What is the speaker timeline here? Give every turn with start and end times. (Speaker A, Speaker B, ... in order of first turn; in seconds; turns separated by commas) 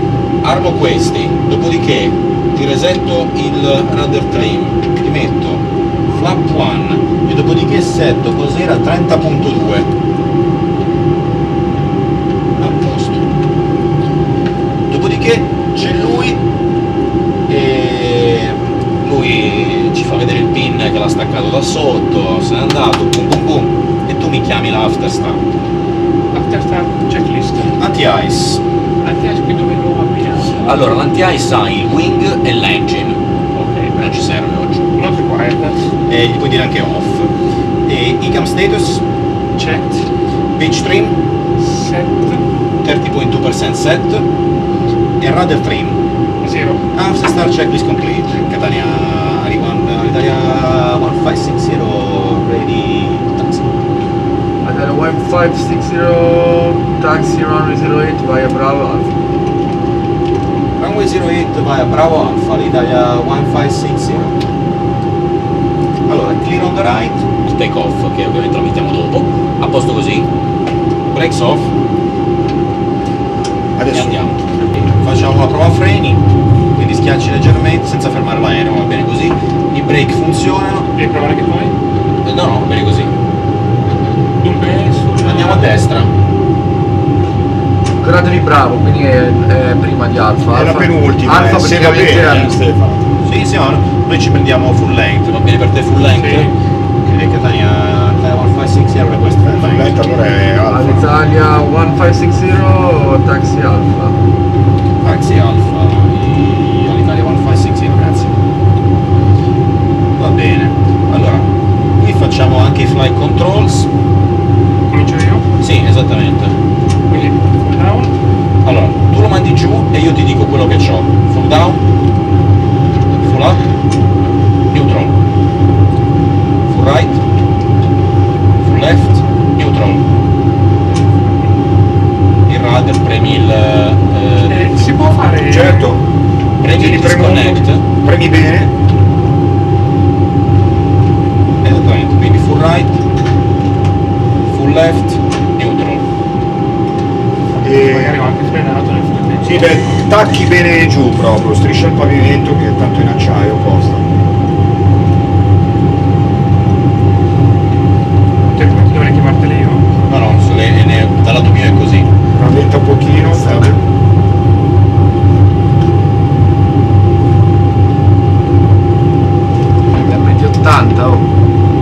Speaker A: 0.4-9.9, Speaker A: 12.6-13.2, Speaker A: 14.9-16.4, Speaker A: 17.5-25.4, Speaker B: 26.3-27.7, Speaker A: 27.8-28.6, Speaker B: 29.0-30.8, Speaker A: 30.5-33.2, Speaker B: 33.5-34.0, Speaker A: 33.9-34.9, Speaker B: 35.0-35.8, Speaker A: 36.0-37.3, Speaker A: 37.9-39.0, Speaker B: 39.5-40.0, Speaker A: 40.5-41.2, Speaker B: 41.6-42.4, Speaker A: 42.8-44.3, Speaker A: 45.2-46.0, Speaker B: 46.4-46.8, Speaker A: 46.9-53.7, Speaker C: 54.6-59.1, Speaker A: 60.8-64.3, Speaker A: 66.1-70.3, Speaker A: 71.1-71.7, Speaker D: 73.8-74.3, Speaker A: 73.9-74.4, Speaker A: 75.0-76.2, Speaker A: 76.7-80.9, Speaker B: 80.9-81.7, Speaker A: 82.2-83.1, Speaker B: 84.4-85.7, Speaker A: 85.2-86.1, Speaker C: 88.0-92.5, Speaker D: 90.5-93.1, Speaker A: 93.2-96.5, Speaker B: 96.2-96.5, Speaker A: 97.1-100.0, Speaker D: 99.5-101.2, Speaker C: 100.7-104.2, Speaker A: 105.0-108.3, Speaker A: 110.2-113.9, Speaker B: 114.9-115.5, Speaker A: 115.6-116.5, Speaker B: 117.1-118.2, Speaker A: 118.6-121.8, Speaker A: 123.1-123.6, Speaker A: 124.7-125.1, Speaker A: 126.7-127.2, Speaker A: 128.6-130.0, Speaker A: 132.5-134.9, Speaker B: 134.5-135.9, Speaker D: 135.5-136.0, Speaker A: 136.6-137.8, Speaker D: 136.7-138.7, Speaker A: 141.6-143.0, Speaker A: 144.5-146.0, Speaker D: 147.6-148.2, Speaker B: 147.6-149.8, Speaker D: 149.4-154.1, Speaker B: 158.5-159.9, Speaker A: 160.1-162.1, Speaker D: 162.3-163.8, Speaker C: 163.0-163.7, Speaker C: 169.9-171.2